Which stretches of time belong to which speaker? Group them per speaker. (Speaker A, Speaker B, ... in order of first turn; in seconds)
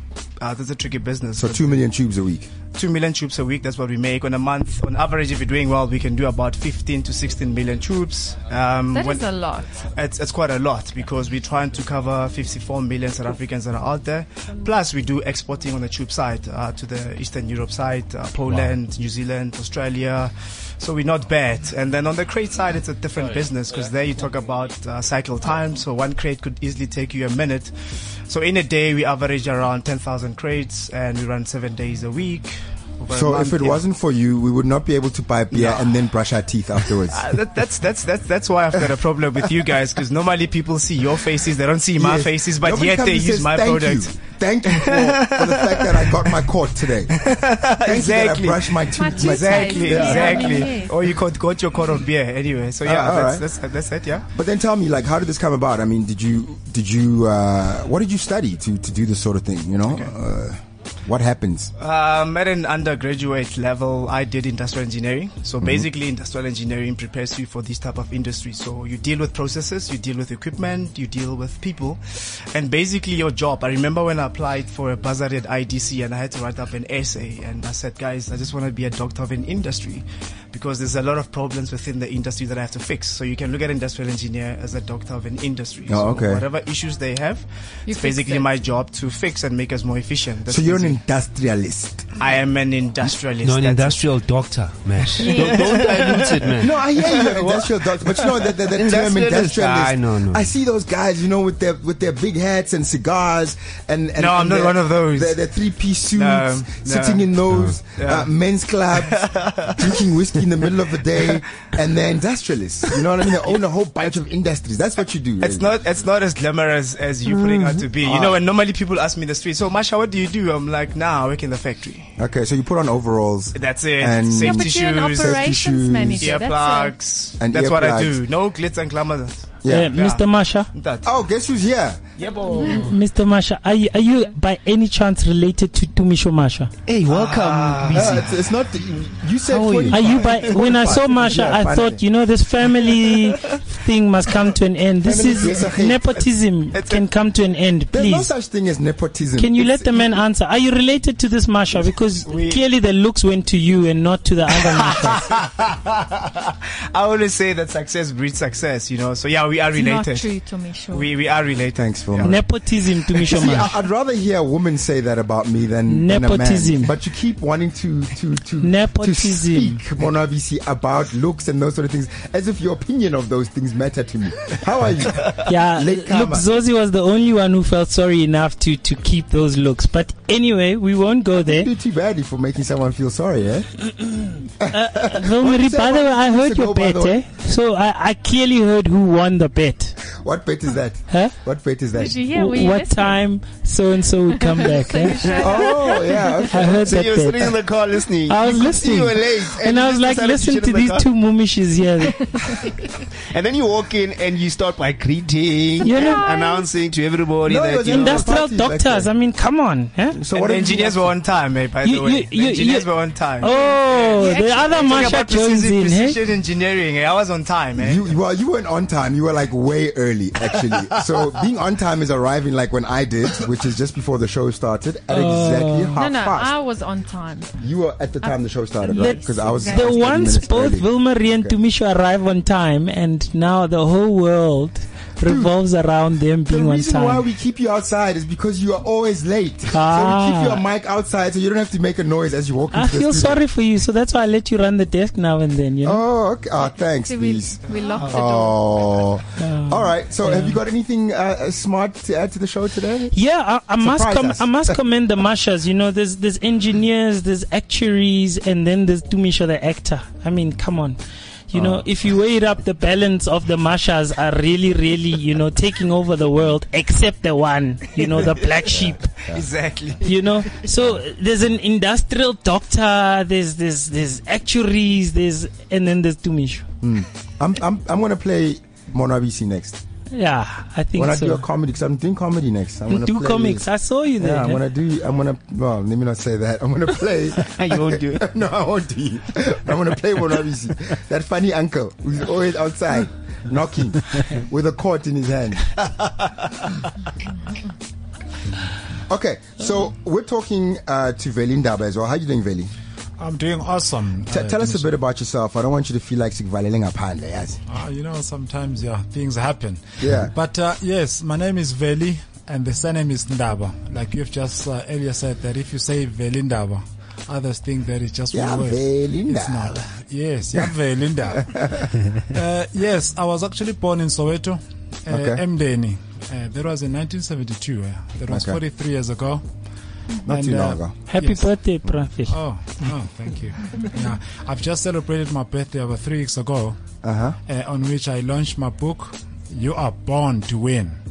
Speaker A: 0.4-1.8, 2.8-9.3, 9.9-33.8, 35.5-35.9, 37.1-44.1, 44.7-46.5, 47.1-54.3, 61.8-91.0, 92.2-94.0, 95.2-98.2, 104.2-105.4, 106.1-107.3, 108.0-108.3, 108.9-110.5, 115.4-122.2, 123.6-125.4, 126.2-131.1, 132.2-132.9, 137.1-138.3, 140.0-140.5, 146.7-147.1, 152.3-152.6, 154.6-160.3, 160.9-163.7, 210.3-218.1, 269.3-270.6
Speaker B: 1.4-2.5, 33.1-37.4, 42.0-47.1, 47.8-50.7, 52.8-53.5, 54.3-61.7, 85.9-86.5, 90.5-92.1, 96.6-115.7, 118.0-118.4, 122.2-126.4, 127.4-128.2, 129.6-129.9, 131.0-132.0, 137.9-142.0, 145.0-146.1, 147.9-150.1, 161.8-162.4, 163.2-176.5, 181.4-183.7, 184.6-187.2, 190.1-192.2, 195.4-197.1, 207.5-209.1, 210.1-211.1, 217.8-226.5, 227.6-231.6, 235.2-235.5, 236.5-243.4, 245.8-253.2, 253.8-254.8, 261.5-261.8, 268.7-269.4, 276.8-279.8, 281.0-283.7, 284.2-295.8, 299.1-302.7, 304.3-307.6, 310.0-310.3, 318.3-319.8, 325.1-325.4, 328.3-328.6, 330.3-331.0, 337.0-337.4
Speaker C: 8.9-9.8, 48.9-51.0, 87.9-88.5, 95.2-96.0, 124.3-126.9, 159.8-161.1, 192.0-193.2, 194.4-196.5, 202.3-202.6, 205.8-206.7, 213.4-215.2, 226.0-227.5, 228.2-230.0, 247.1-248.6
Speaker D: 93.4-96.8, 98.6-100.5, 136.9-138.3, 139.5-140.0, 196.8-201.1, 202.2-208.3, 287.4-288.3
Speaker E: 129.7-130.7, 132.6-136.7, 139.8-148.3, 149.4-155.3, 162.2-163.8, 165.9-166.9, 168.6-169.8, 175.5-181.7, 184.7-189.9, 192.3-195.7, 196.5-197.6, 198.3-202.4, 205.8-206.3, 207.9-210.2, 211.8-216.2, 225.1-226.0, 228.9-237.2, 239.7-240.6, 242.7-246.0, 249.4-250.6, 253.1-269.2, 270.0-276.7, 280.1-281.4, 282.9-284.6, 331.1-332.4
Speaker F: 303.2-304.9, 307.7-329.4, 330.3-331.6, 332.3-336.9, 337.5-341.0